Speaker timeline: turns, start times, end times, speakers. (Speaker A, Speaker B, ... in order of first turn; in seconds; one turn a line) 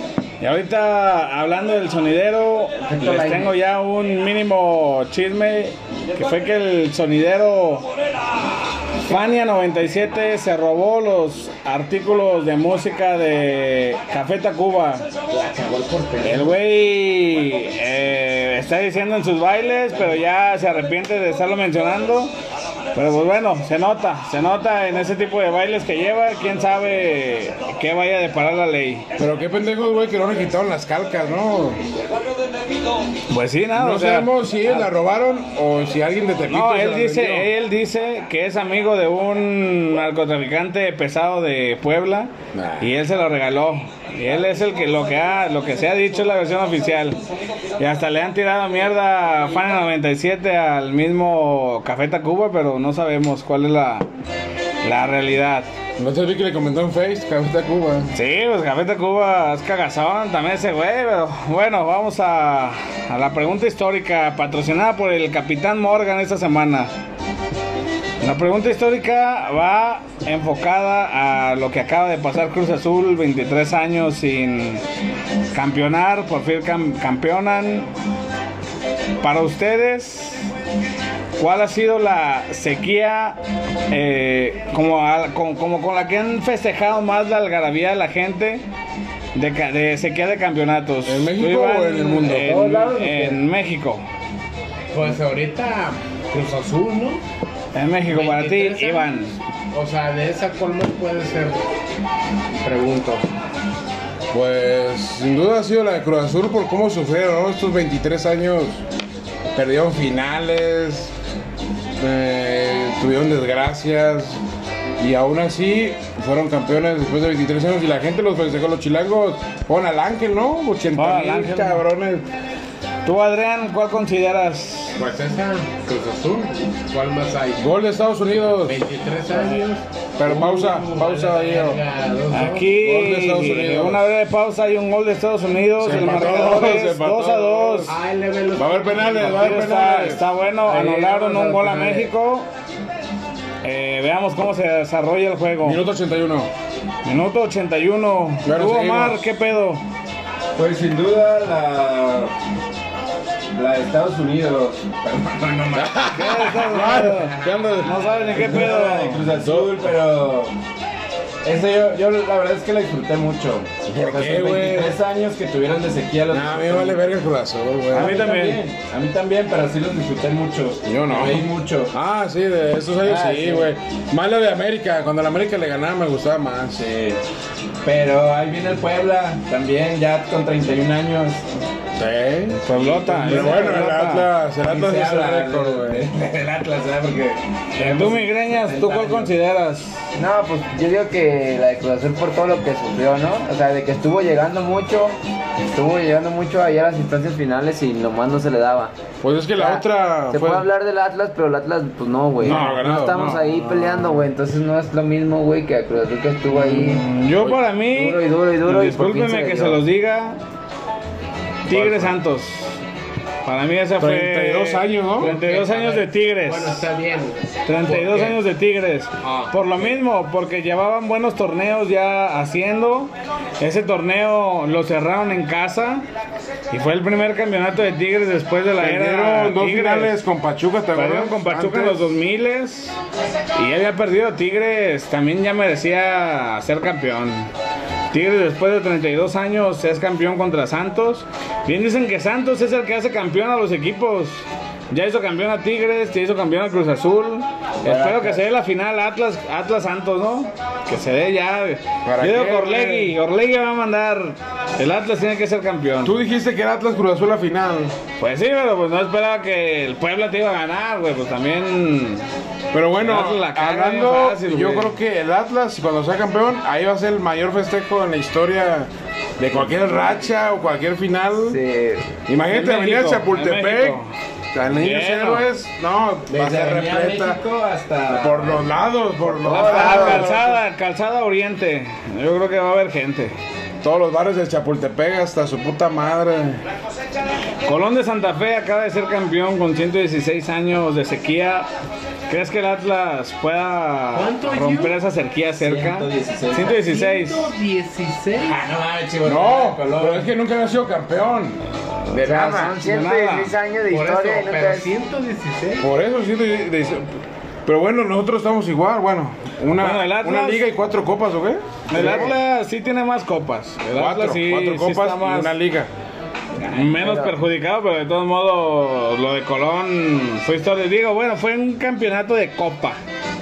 Speaker A: 0.4-7.9
Speaker B: 2.9-3.5
Speaker A: 9.1-15.0
Speaker B: 15.4-16.5
Speaker C: 15.6-16.4
Speaker A: 16.2-22.3
Speaker A: 22.9-29.1
Speaker D: 29.2-31.8
Speaker A: 33.3-34.9
Speaker D: 33.7-37.5
Speaker A: 36.5-47.2
Speaker D: 42.5-42.9
Speaker A: 47.8-54.0
Speaker A: 54.8-55.7
Speaker D: 56.0-58.1
Speaker A: 58.1-66.9
Speaker A: 68.2-74.8
Speaker A: 75.5-77.9
Speaker A: 79.2-80.5
Speaker A: 81.4-83.4
Speaker A: 83.9-88.6
Speaker A: 89.3-94.0
Speaker D: 91.0-92.6
Speaker E: 92.3-93.4
Speaker E: 94.9-97.2
Speaker A: 97.7-99.3
Speaker E: 98.1-99.1
Speaker E: 99.7-101.6
Speaker E: 102.6-103.2
Speaker D: 104.3-108.8
Speaker D: 109.5-111.1
Speaker D: 112.0-114.4
Speaker D: 115.0-122.3
Speaker A: 121.0-121.8
Speaker A: 123.0-125.0
Speaker E: 125.0-127.7
Speaker D: 127.6-128.8
Speaker E: 128.7-132.7
Speaker D: 130.2-131.8
Speaker A: 132.3-137.9
Speaker D: 132.7-134.1
Speaker D: 135.8-137.9
Speaker E: 137.9-139.6
Speaker D: 138.6-140.3
Speaker A: 139.2-142.5
Speaker B: 140.7-142.1
Speaker A: 143.6-145.8
Speaker D: 145.6-146.5
Speaker A: 147.1-149.8
Speaker D: 148.4-149.3
Speaker C: 150.6-152.3
Speaker C: 153.5-156.2
Speaker D: 155.7-158.4
Speaker A: 156.1-159.3
Speaker C: 158.3-160.6
Speaker D: 159.4-159.8
Speaker C: 161.4-167.1
Speaker D: 163.9-165.0
Speaker D: 166.3-168.2
Speaker A: 167.9-168.6
Speaker C: 167.9-171.9
Speaker D: 170.8-176.9
Speaker C: 173.1-173.5
Speaker C: 176.7-177.2
Speaker C: 177.8-181.5
Speaker D: 182.0-186.1
Speaker A: 182.7-184.3
Speaker C: 182.7-189.3
Speaker A: 187.7-190.1
Speaker B: 190.2-198.9
Speaker D: 199.2-200.7
Speaker B: 199.6-209.8
Speaker D: 202.4-204.2
Speaker A: 202.4-202.8
Speaker A: 206.5-210.4
Speaker D: 211.7-212.2
Speaker A: 211.7-212.8
Speaker A: 213.4-216.9
Speaker D: 214.0-215.3
Speaker E: 215.2-218.4
Speaker A: 217.7-226.1
Speaker E: 219.2-219.6
Speaker A: 226.7-230.2
Speaker D: 228.8-232.2
Speaker A: 230.9-233.0
Speaker A: 233.6-237.5
Speaker A: 238.1-256.1
Speaker B: 247.8-248.4
Speaker D: 252.1-253.2
Speaker D: 256.0-258.0
Speaker A: 258.2-262.3
Speaker D: 262.7-271.6
Speaker A: 263.0-264.9
Speaker B: 271.5-272.1
Speaker D: 272.3-274.0
Speaker A: 272.5-274.1
Speaker D: 274.5-277.4
Speaker A: 274.7-275.5
Speaker C: 276.3-278.7
Speaker D: 278.1-280.6
Speaker B: 279.4-280.3
Speaker A: 279.5-283.4
Speaker D: 283.8-286.6
Speaker A: 287.6-291.7
Speaker A: 292.3-297.5
Speaker E: 294.1-294.9
Speaker C: 295.6-296.8
Speaker E: 296.7-298.6
Speaker C: 298.4-300.3
Speaker D: 299.2-301.6
Speaker D: 302.1-302.8
Speaker B: 302.2-304.9
Speaker A: 302.8-303.5
Speaker E: 303.9-305.9
Speaker D: 305.8-307.1
Speaker D: 307.6-312.4
Speaker A: 309.8-310.6
Speaker A: 311.9-315.6
Speaker B: 311.9-312.4
Speaker D: 313.9-315.9
Speaker A: 316.6-323.0
Speaker B: 316.6-317.4